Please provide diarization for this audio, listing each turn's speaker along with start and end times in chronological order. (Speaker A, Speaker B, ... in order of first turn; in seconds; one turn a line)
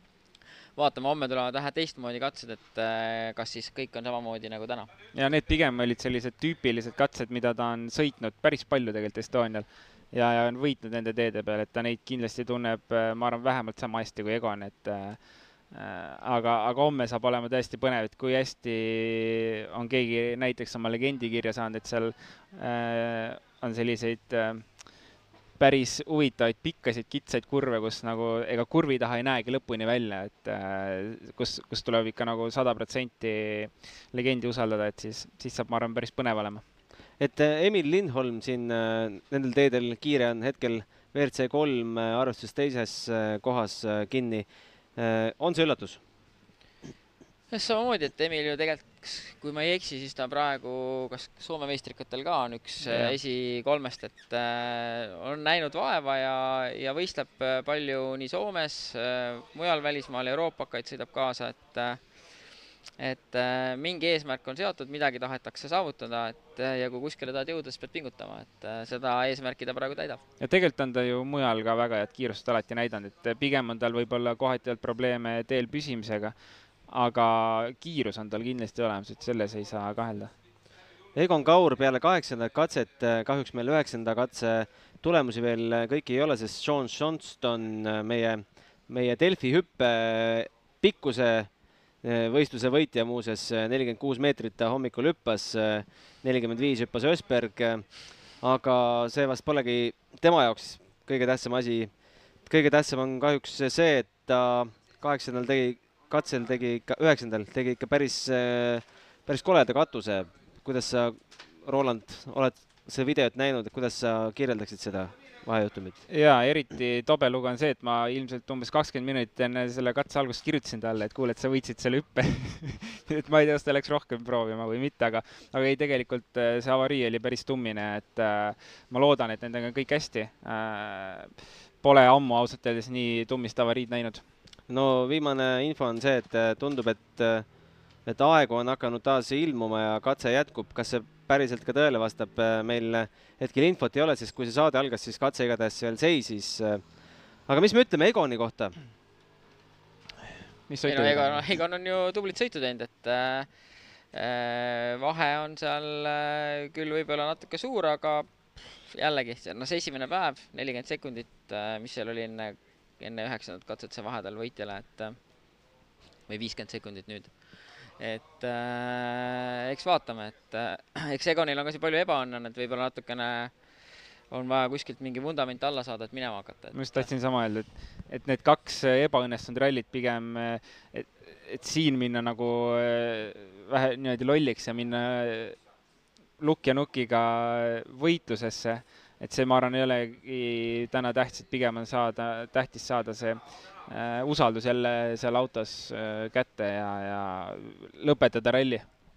Speaker A: 0.8-4.9
Speaker B: 5.1-36.6
Speaker C: 37.2-46.0
Speaker A: 47.5-62.0
Speaker B: 52.8-53.1
Speaker A: 63.0-70.2
Speaker B: 70.4-76.3
Speaker B: 76.9-80.3
Speaker C: 81.1-116.0
Speaker B: 116.1-134.2
Speaker C: 134.7-137.5
Speaker C: 138.0-148.8
Speaker B: 150.7-151.4
Speaker A: 150.8-153.5
Speaker A: 154.1-165.2
Speaker A: 166.3-173.5
Speaker A: 174.3-177.1
Speaker B: 176.7-185.6
Speaker B: 186.4-198.9